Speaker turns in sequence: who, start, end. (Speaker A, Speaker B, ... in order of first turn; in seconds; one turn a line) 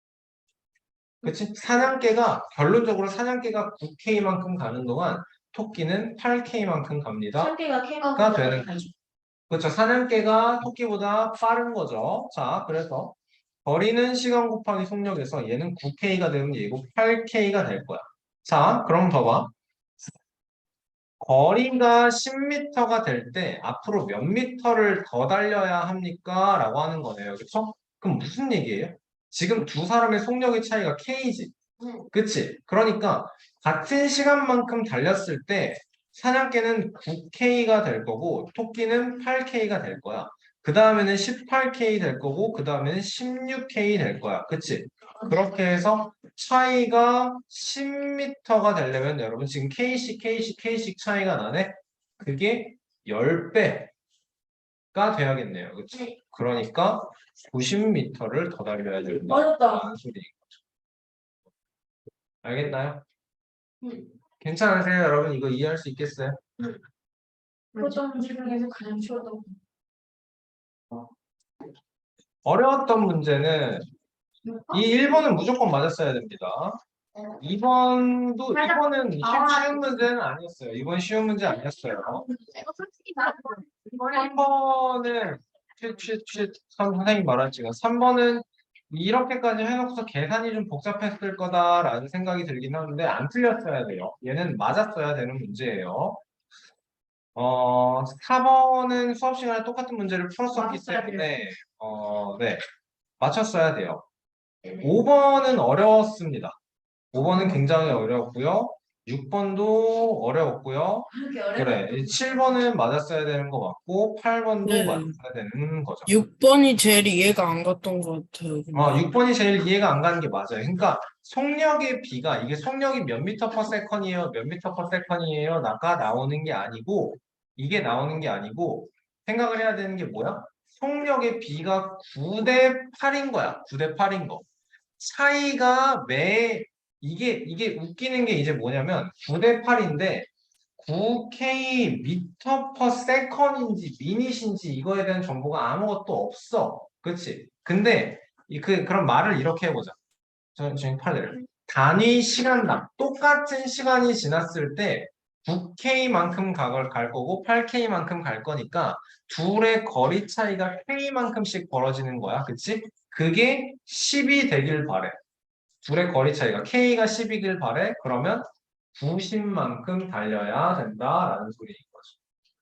Speaker A: 1.2-7.5
Speaker B: 7.4-8.8
Speaker A: 8.1-8.8
Speaker C: 8.4-8.8
Speaker A: 9.5-19.5
Speaker A: 21.2-31.5
Speaker C: 31.8-32.1
Speaker A: 32.1-53.9
Speaker A: 54.9-60.5
Speaker B: 59.0-59.9
Speaker A: 62.4-63.0
Speaker C: 63.8-64.1
Speaker A: 64.4-66.7
Speaker D: 67.8-69.3
Speaker B: 67.8-69.4
Speaker A: 72.4-73.9
Speaker A: 74.7-76.8
Speaker A: 77.4-82.2
Speaker D: 78.5-79.8
Speaker D: 82.4-84.0
Speaker C: 83.2-84.0
Speaker A: 84.1-96.2
Speaker A: 97.3-102.6
Speaker D: 100.5-101.2
Speaker A: 103.2-104.0
Speaker A: 104.8-106.6
Speaker A: 107.1-116.1
Speaker C: 111.2-112.4
Speaker E: 114.6-115.1
Speaker E: 116.1-119.1
Speaker A: 118.7-134.4
Speaker A: 135.0-149.9
Speaker A: 150.6-165.2
Speaker A: 165.8-172.1